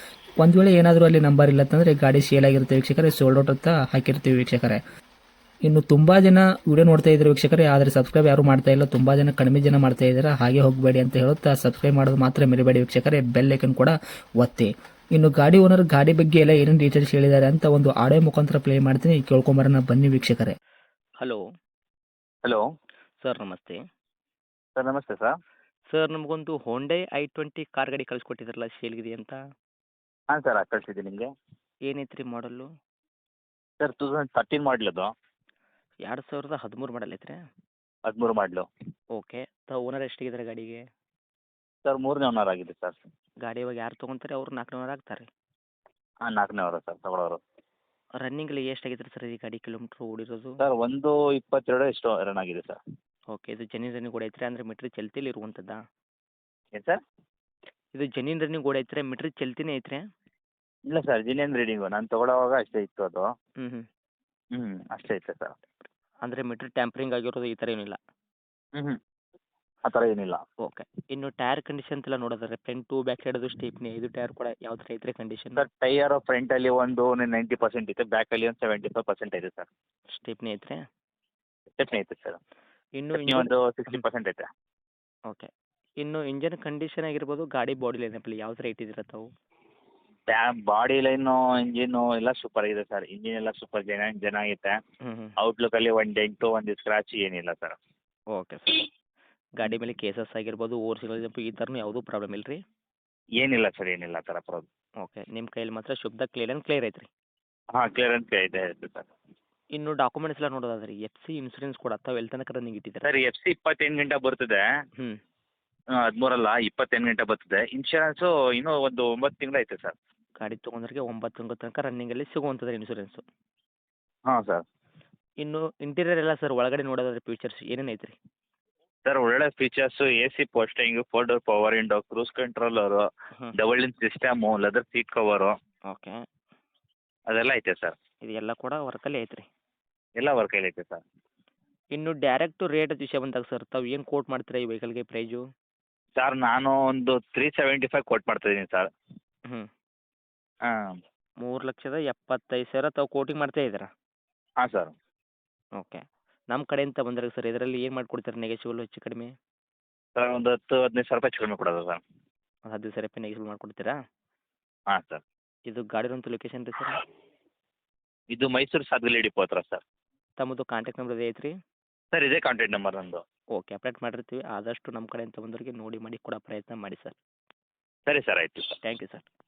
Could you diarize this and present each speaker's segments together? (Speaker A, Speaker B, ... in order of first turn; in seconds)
Speaker A: 0.4-4.8, 5.7-20.6
Speaker B: 23.2-23.8, 25.9-29.4, 31.9-32.7, 36.0-37.4, 39.1-40.8, 43.4-45.3, 48.2-50.6, 53.3-55.8, 58.0-60.0, 66.2-68.0, 70.6-75.6, 80.1-80.8, 83.0-84.0, 86.0-89.3, 95.0-95.3, 98.3-98.9, 99.6-102.6, 105.0-107.1, 109.8-113.1, 120.4-123.2, 125.4-128.2, 135.9-136.2, 138.2-139.5, 141.9-145.4, 151.4-153.9, 156.5-159.3, 162.7-163.9, 165.7-167.0, 170.4-171.5, 173.6-177.2, 178.8-179.3
Speaker C: 24.8-25.4, 30.3-31.3, 33.8-35.1, 38.1-38.7, 41.9-43.0, 46.2-47.4, 50.6-52.8, 60.9-63.3, 64.5-65.5, 69.8-70.4, 75.6-79.7, 81.7-82.4, 83.1-84.5, 90.3-94.8, 95.4-97.8, 103.4-104.7, 107.8-109.1, 113.0-114.6, 116.0-120.0, 124.3-124.7, 129.1-135.5, 137.3-138.0, 140.2-141.0, 146.2-148.9, 150.7-151.0, 154.6-154.9, 160.2-162.0, 164.9-165.2, 168.3-169.8, 172.1-173.2, 178.1-178.8